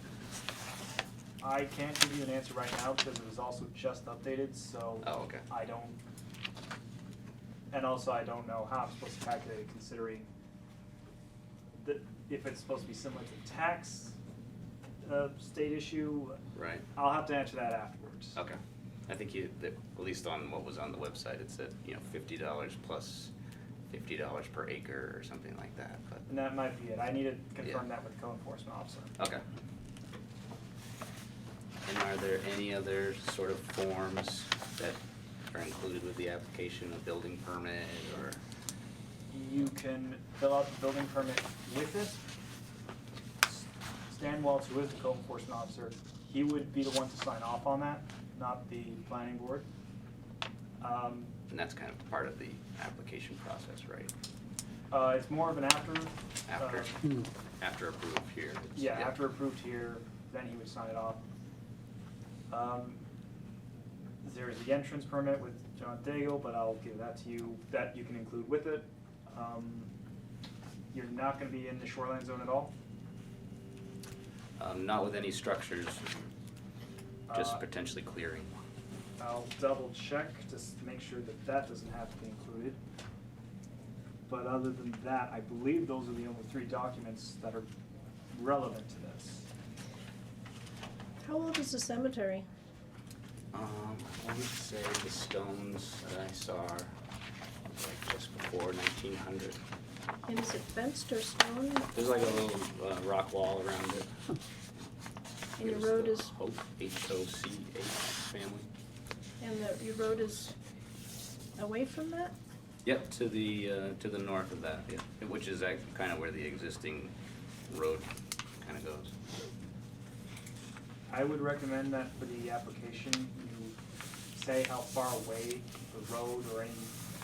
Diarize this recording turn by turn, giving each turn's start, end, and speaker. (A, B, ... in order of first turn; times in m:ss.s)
0:01.4-0:06.0 A
0:05.0-0:05.4 B
0:07.7-0:10.3 A
0:11.7-0:14.2 A
0:15.0-0:16.4 A
0:16.5-0:16.8 B
0:17.0-0:18.4 A
0:18.3-0:23.3 B
0:23.9-0:26.2 B
0:26.3-0:29.1 A
0:31.8-0:35.0 B
0:35.5-0:38.4 B
0:39.3-0:42.3 A
0:43.4-0:49.7 A
0:50.8-0:51.3 A
0:51.5-0:54.1 B
0:54.9-0:57.0 A
0:56.5-0:57.0 B
0:57.6-0:59.2 B
0:58.7-1:01.3 A
1:02.5-1:03.0 A
1:04.2-1:09.9 A
1:10.9-1:12.7 A
1:14.6-1:16.2 B
1:17.3-1:17.6 A
1:17.3-1:18.5 B
1:19.2-1:22.8 A
1:24.3-1:27.7 A
1:28.3-1:29.4 A
1:31.2-1:32.4 C
1:33.5-1:36.9 B
1:37.7-1:39.6 B
1:40.2-1:42.4 C
1:41.9-1:44.1 B
1:45.6-1:46.3 C
1:45.6-1:48.7 B
1:49.4-1:50.5 C
1:51.6-1:52.3 C
1:52.8-1:57.1 B
1:57.7-1:58.1 B
1:58.6-1:59.1 B
2:01.1-2:03.8 A
2:04.3-2:07.0 A